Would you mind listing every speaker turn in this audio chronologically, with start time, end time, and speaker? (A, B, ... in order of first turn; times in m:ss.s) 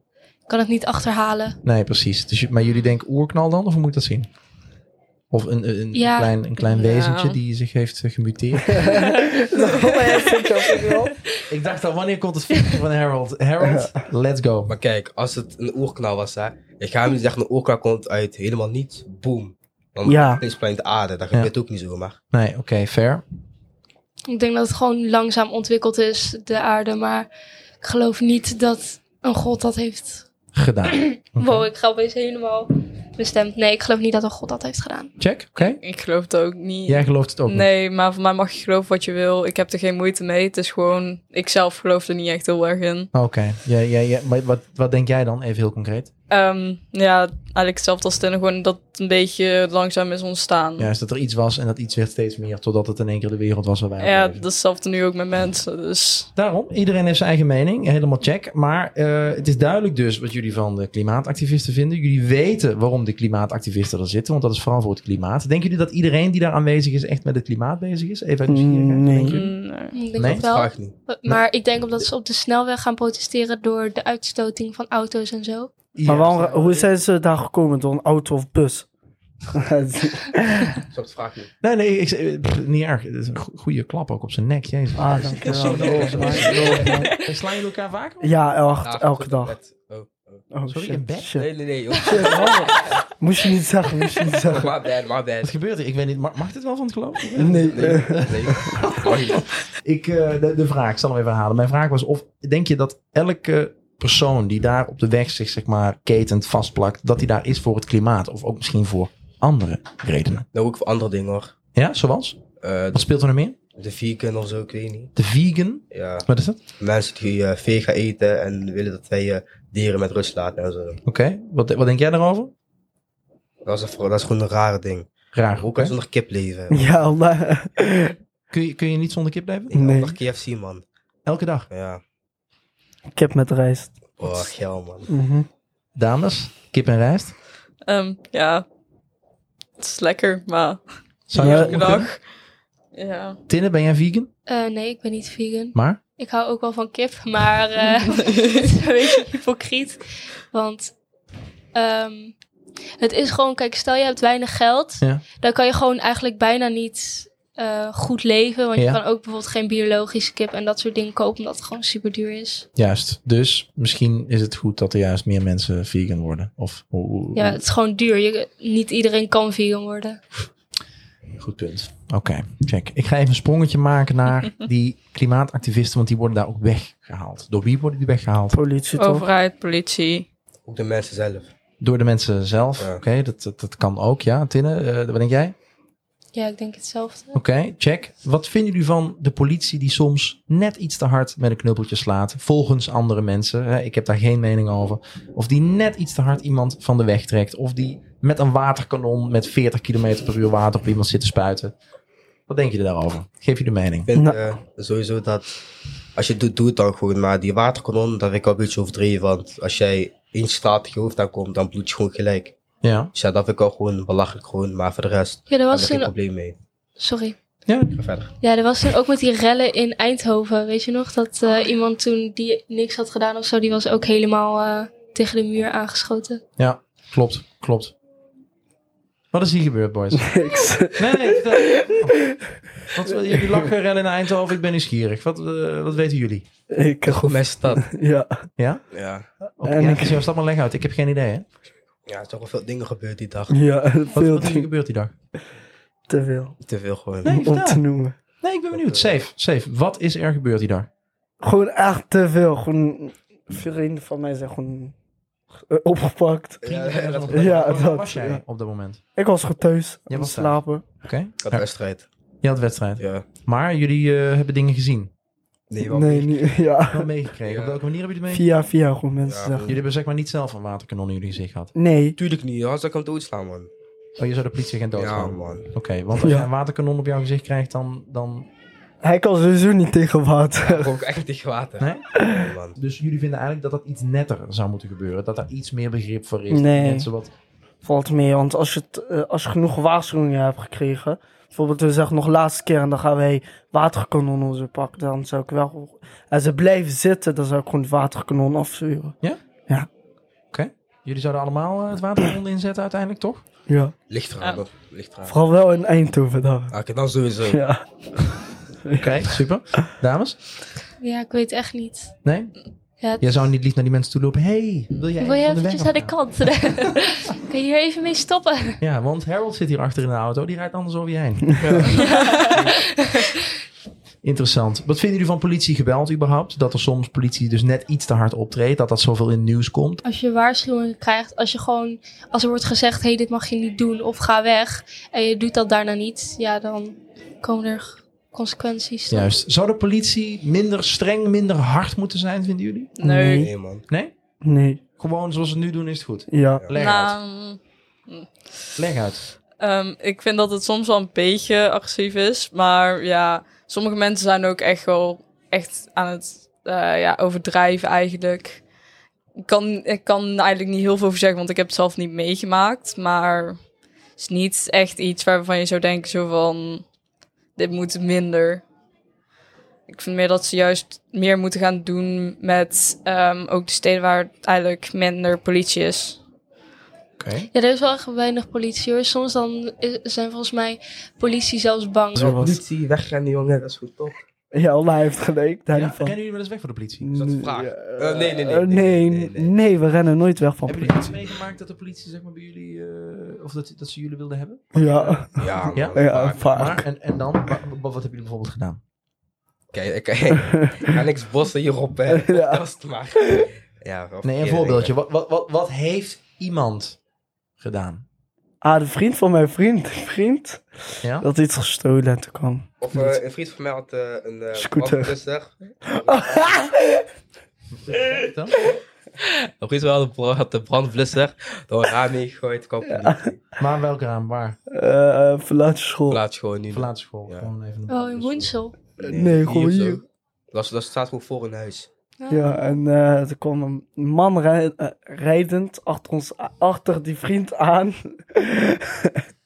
0:00.5-0:01.6 A
0:01.6-0:04.3 B
0:05.3-0:09.0 B
0:05.9-0:06.3 A
0:06.7-0:07.4 C
0:08.8-0:11.1 D
0:11.5-0:14.7 B
0:13.6-0:13.9 D
0:14.7-0:22.2 E
0:20.0-0:20.4 D
0:22.3-0:23.2 B
0:24.3-0:27.3 A
0:27.8-0:30.3 A
0:30.5-0:31.7 B
0:30.9-0:35.1 A
0:35.2-0:35.8 B
0:35.6-0:43.1 C
0:36.9-0:37.7 B
0:43.1-0:46.1 B
0:46.3-0:50.9 C
0:50.8-0:54.4 B
0:54.0-0:56.3 C
0:56.4-1:09.5 B
1:08.5-1:09.4 D
1:09.2-1:10.0 C
1:09.9-1:15.7 A
1:10.2-1:10.4 B
1:10.2-1:11.0 E
1:15.9-1:16.8 B
1:16.0-1:18.9 D
1:19.5-1:20.8 D
1:20.9-1:21.5 E
1:21.6-1:28.3 B
1:25.0-1:27.1 D
1:25.6-1:26.4 E
1:26.3-1:27.3 C
1:28.2-1:29.6 D
1:28.8-1:30.5 E
1:30.5-1:34.7 D
1:30.7-1:31.3 B
1:31.4-1:33.0 E
1:34.4-1:35.5 E
1:35.4-1:50.4 B
1:37.4-1:38.8 D
1:37.5-1:39.5 E
1:50.5-1:51.5 E
1:51.7-1:52.4 B
1:52.6-1:53.1 E
1:52.9-1:53.6 B
1:53.8-1:55.1 E
1:55.2-1:56.6 B
1:55.9-1:56.2 E
1:56.8-2:01.0 E
2:01.0-2:02.5 B
2:03.6-2:06.9 E
2:05.3-2:05.9 B
2:06.7-2:08.1 D
2:08.5-2:09.7 B
2:09.7-2:10.8 E
2:09.7-2:10.2 D
2:11.2-2:11.7 B
2:11.7-2:12.0 E
2:13.1-2:13.9 D
2:14.2-2:15.1 E
2:15.1-2:15.5 D
2:15.9-2:17.3 B
2:17.9-2:18.6 C
2:19.8-2:22.2 C
2:21.3-2:22.1 B
2:21.4-2:21.8 D
2:22.9-2:23.4 C
2:23.5-2:24.3 B
2:24.5-2:30.9 A
2:25.7-2:26.0 B
2:31.7-2:32.3 A
2:33.0-2:42.7 A
2:42.8-2:47.6 B
2:47.3-2:50.2 A
2:51.4-2:58.6 B
2:58.5-2:59.3 D
2:59.0-3:00.2 C
3:00.6-3:01.5 E
3:01.8-3:05.5 B
3:06.3-3:07.4 A
3:07.3-3:21.7 B
3:22.5-3:24.1 B
3:24.1-3:25.5 E
3:24.1-3:24.4 D
3:26.2-3:32.6 E
3:32.8-3:33.1 B
3:33.1-3:36.6 E
3:35.5-3:36.1 A
3:37.0-3:37.4 A
3:37.6-3:38.0 B
3:37.9-3:38.3 E
3:38.4-3:46.4 A
3:46.6-3:47.9 B
3:49.3-3:50.3 B
3:50.1-3:52.4 D
3:50.9-3:52.2 B
3:52.9-3:56.4 B
3:53.3-3:53.6 D
3:56.7-3:58.4 D
3:57.0-3:57.8 E
3:58.6-3:58.8 B
3:58.9-3:59.3 E
3:59.6-4:01.4 B
3:59.6-4:00.2 D
4:02.1-4:03.5 E
4:03.5-4:04.7 D
4:04.1-4:05.1 B
4:06.1-4:06.6 D
4:06.6-4:07.3 E
4:07.2-4:07.8 B
4:07.2-4:08.1 D
4:08.4-4:10.9 B
4:08.7-4:09.1 E
4:11.4-4:14.9 D
4:15.7-4:16.6 D
4:16.6-4:17.8 E
4:16.6-4:19.0 B
4:17.3-4:18.4 D
4:19.2-4:20.8 D
4:20.1-4:21.6 B
4:21.4-4:22.0 E
4:22.4-4:25.1 B
4:23.0-4:23.3 E
4:25.7-4:26.4 E
4:25.8-4:27.1 D
4:26.9-4:28.5 B
4:27.4-4:27.8 E
4:28.3-4:29.7 D
4:29.2-4:29.8 E
4:29.6-4:31.7 B
4:31.7-4:32.2 D
4:32.2-4:33.7 E
4:34.2-4:38.5 B
4:34.9-4:35.7 E
4:36.2-4:36.5 D
4:39.0-4:40.9 D
4:40.6-4:42.8 E
4:41.8-4:42.1 B
4:42.8-4:47.3 B
4:46.5-4:47.1 D
4:47.8-4:59.2 D
5:00.5-5:03.4 B
5:03.7-5:03.9 D
5:04.1-5:05.3 E
5:05.3-5:06.7 D
5:06.7-5:07.6 E
5:07.5-5:07.8 D
5:08.8-5:09.2 D
5:09.0-5:10.4 B
5:11.0-5:12.1 A
5:12.2-5:12.5 B
5:13.0-5:13.2 A
5:13.2-5:16.1 B
5:15.2-5:18.8 A
5:18.8-5:22.0 B
5:21.6-5:22.8 E
5:22.0-5:23.3 A
5:22.1-5:22.4 C
5:24.2-5:30.0 B
5:30.0-5:39.3 A
5:39.1-5:42.9 B
5:43.0-5:43.5 C
5:43.0-5:43.5 D
5:43.4-5:43.8 E
5:43.9-5:44.1 B
5:44.4-5:44.8 D
5:45.0-5:47.2 B
5:46.3-5:46.6 D
5:46.7-5:48.3 C
5:48.8-5:49.2 B
5:49.6-5:58.6 C
5:59.4-6:03.6 C
6:04.2-6:06.8 C
6:07.6-6:08.6 C
6:09.9-6:16.2 C
6:17.2-6:17.5 B
6:17.5-6:22.3 A
6:22.2-6:22.6 D
6:22.2-6:24.2 E
6:24.5-6:26.1 D
6:25.7-6:27.0 B
6:27.0-6:31.1 D
6:27.1-6:29.5 E
6:30.6-6:38.8 B
6:34.7-6:36.8 D
6:35.4-6:36.4 E
6:39.7-6:44.9 E
6:40.5-6:40.8 D
6:42.1-6:42.6 D
6:43.2-6:43.5 D
6:44.2-6:47.0 B
6:47.6-6:48.0 B
6:48.6-6:50.6 D
6:51.2-6:53.2 D
6:52.8-6:56.4 E
6:54.5-6:55.1 D
6:55.9-6:57.0 D
6:57.8-6:58.5 B
6:59.2-7:03.4 E
7:02.9-7:03.2 D
7:03.6-7:04.6 B
7:04.7-7:06.2 D
7:06.1-7:07.5 E
7:06.7-7:08.5 B
7:07.9-7:08.8 A
7:09.0-7:11.9 E
7:09.0-7:10.0 D
7:12.2-7:12.6 A
7:12.3-7:19.2 D